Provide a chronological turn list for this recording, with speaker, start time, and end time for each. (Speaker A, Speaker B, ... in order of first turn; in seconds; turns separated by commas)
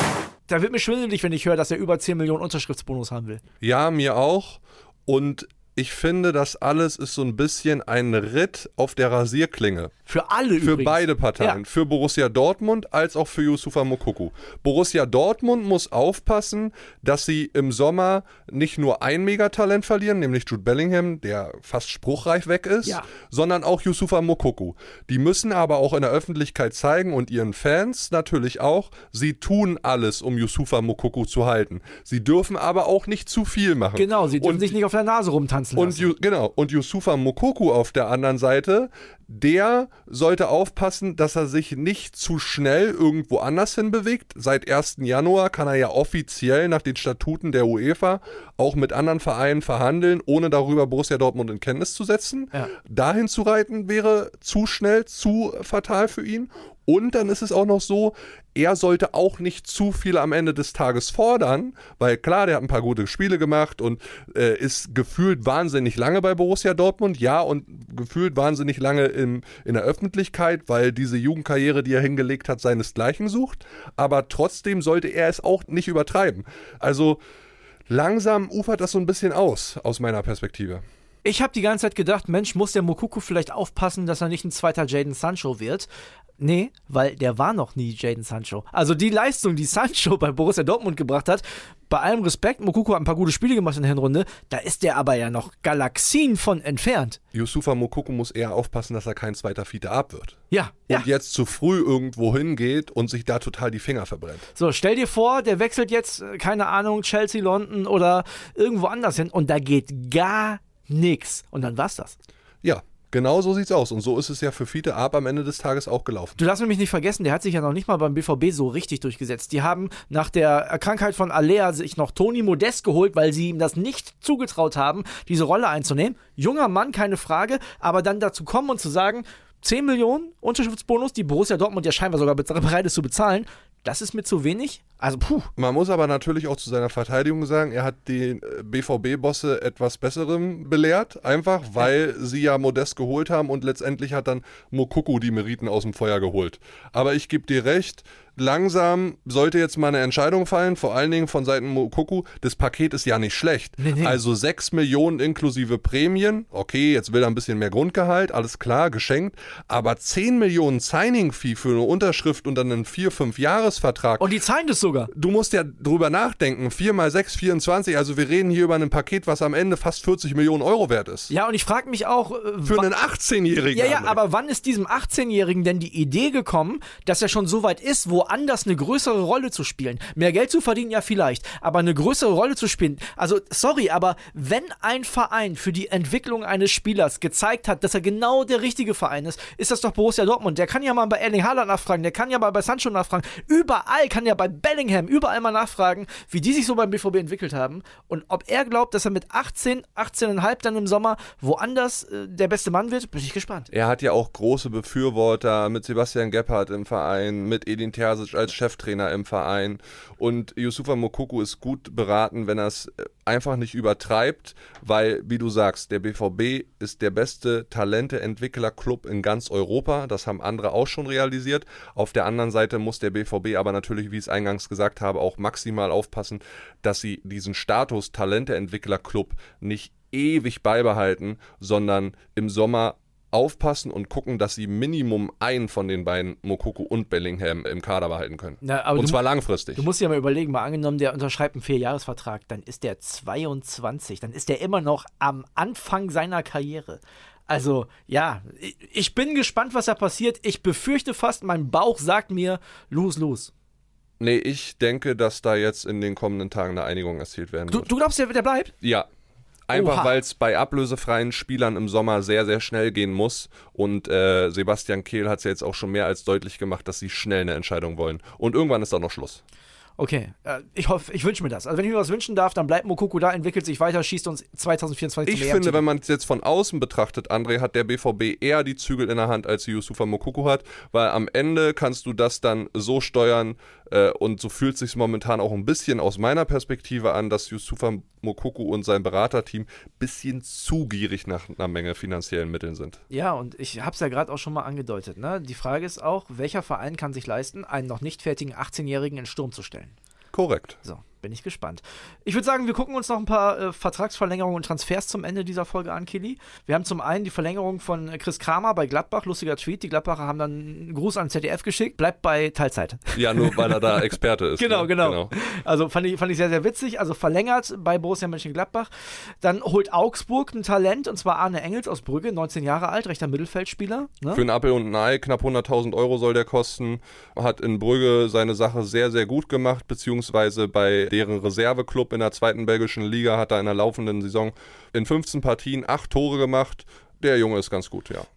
Speaker A: 0.5-3.4, Speaker B: 3.6-9.9, Speaker A: 10.1-11.6, Speaker B: 10.6-34.8, Speaker A: 22.8-23.1, Speaker A: 34.0-36.1, Speaker B: 35.8-77.2, Speaker B: 77.9-80.8, Speaker A: 81.2-85.9, Speaker A: 86.4-97.2, Speaker B: 97.3-104.5, Speaker A: 100.5-101.0, Speaker A: 104.5-112.2, Speaker B: 112.6-116.4, Speaker A: 116.4-135.5, Speaker B: 135.6-164.3, Speaker A: 153.8-154.2, Speaker A: 164.2-165.1, Speaker B: 165.1-171.3, Speaker A: 171.3-172.9, Speaker B: 172.6-174.2, Speaker A: 173.7-203.7, Speaker B: 203.7-239.9, Speaker A: 238.6-253.5, Speaker B: 254.2-257.9, Speaker A: 257.7-258.7, Speaker B: 258.8-259.1, Speaker B: 259.7-269.4, Speaker A: 259.7-260.1, Speaker A: 270.0-275.8, Speaker B: 275.3-293.0, Speaker A: 293.1-299.9, Speaker B: 300.3-300.8, Speaker A: 300.8-314.0, Speaker B: 313.1-315.3, Speaker A: 314.6-324.4, Speaker B: 324.3-338.3